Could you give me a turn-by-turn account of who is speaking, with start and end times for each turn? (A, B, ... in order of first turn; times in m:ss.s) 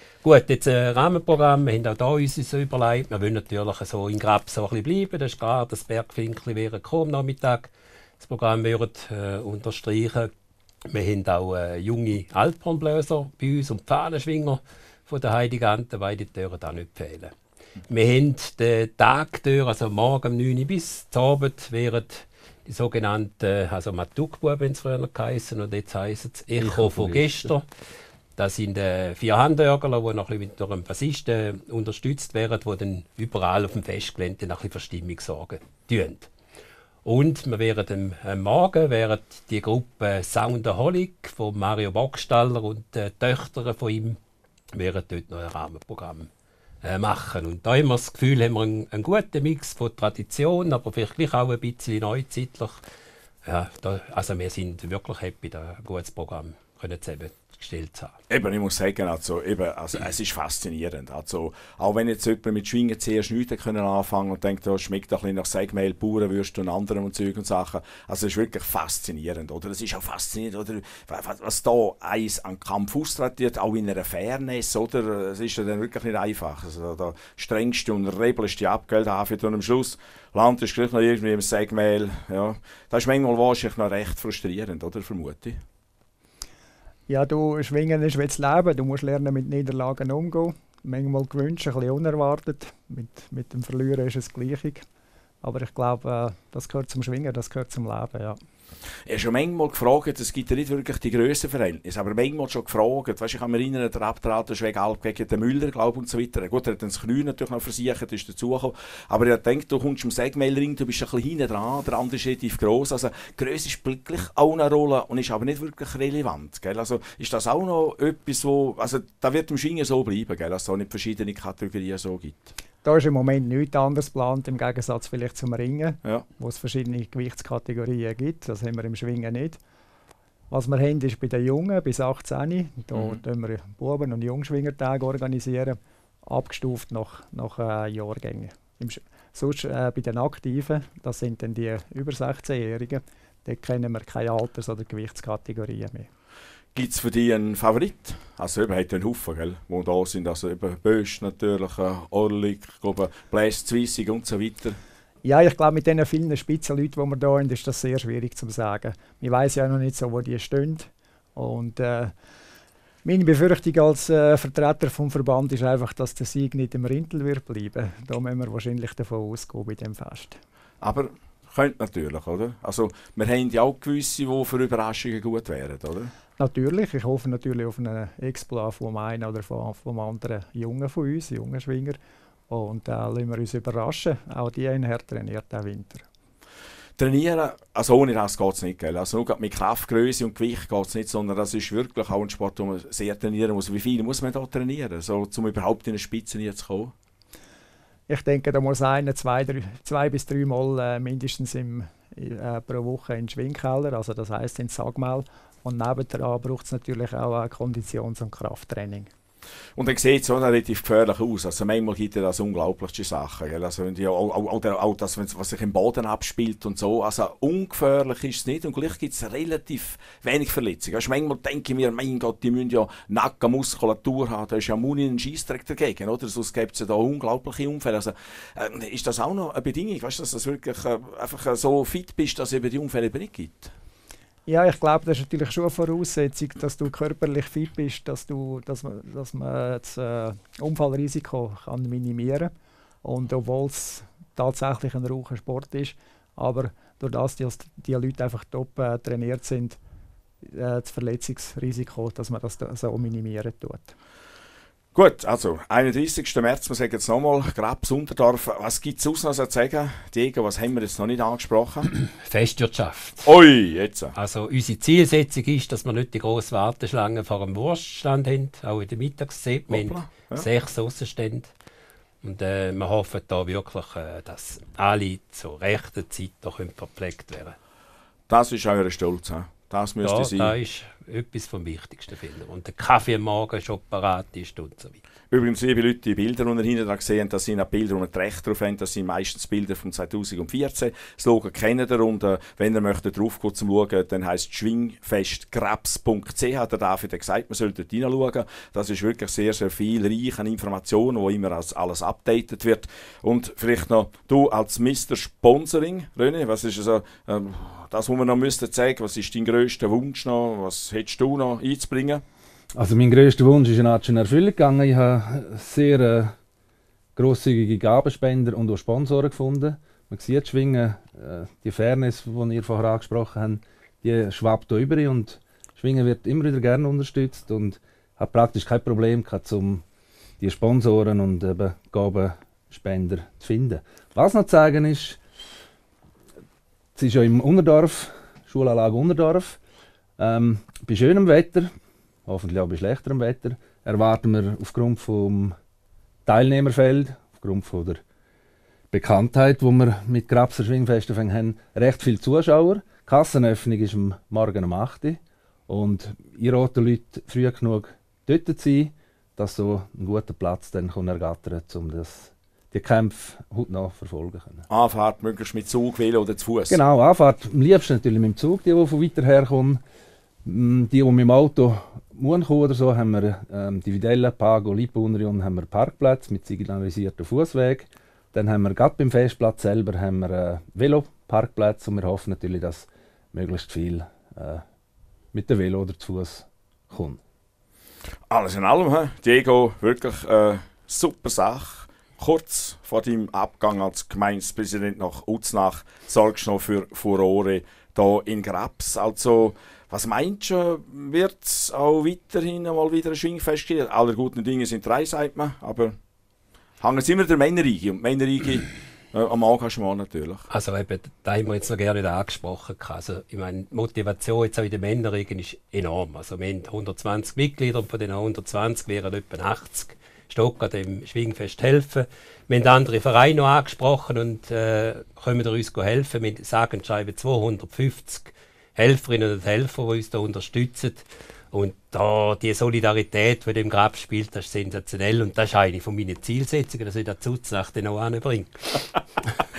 0:00.2-0:07.7 A
0:08.2-0:10.3 A
0:10.8-0:17.3 A
0:17.9-0:27.6 A
0:26.6-0:27.5 B
0:28.4-0:36.3 A
0:37.0-0:44.2 A
0:44.7-0:46.3 A
0:46.8-0:52.8 A
0:53.4-0:58.1 A
0:58.3-1:25.6 C
1:27.1-1:34.8 D
1:35.4-1:38.4 D
1:39.1-2:02.5 C
2:02.8-2:09.6 D
2:10.5-2:26.1 D
2:12.9-2:13.2 C
2:26.8-2:34.8 C
2:35.2-2:42.1 D
2:43.0-2:50.4 D
2:50.8-2:56.1 C
2:56.4-3:02.0 D
3:02.5-3:06.0 D
3:07.0-3:16.9 C
3:18.1-3:29.1 D
3:29.8-3:53.7 C
3:54.5-4:02.5 D
4:03.0-4:09.8 D
4:10.4-4:13.9 D
4:15.0-4:21.9 C
4:22.1-4:23.3 A
4:23.2-4:24.1 C
4:24.2-4:31.5 A
4:29.7-4:30.5 C
4:32.2-4:37.6 A
4:38.3-4:40.5 C
4:40.0-4:45.0 A
4:45.3-5:12.2 C
5:12.7-5:16.3 B
5:17.2-5:29.8 B
5:30.4-5:35.2 B
5:37.0-5:39.6 B
5:40.2-5:41.7 B
5:42.2-5:45.6 B
5:46.2-5:48.0 B
5:48.9-6:04.7 B
6:04.7-6:06.8 C
6:06.7-6:09.8 B
6:10.4-6:24.6 B
6:25.3-6:27.2 B
6:28.3-6:46.0 C
6:46.8-6:50.5 C
6:50.5-7:19.3 A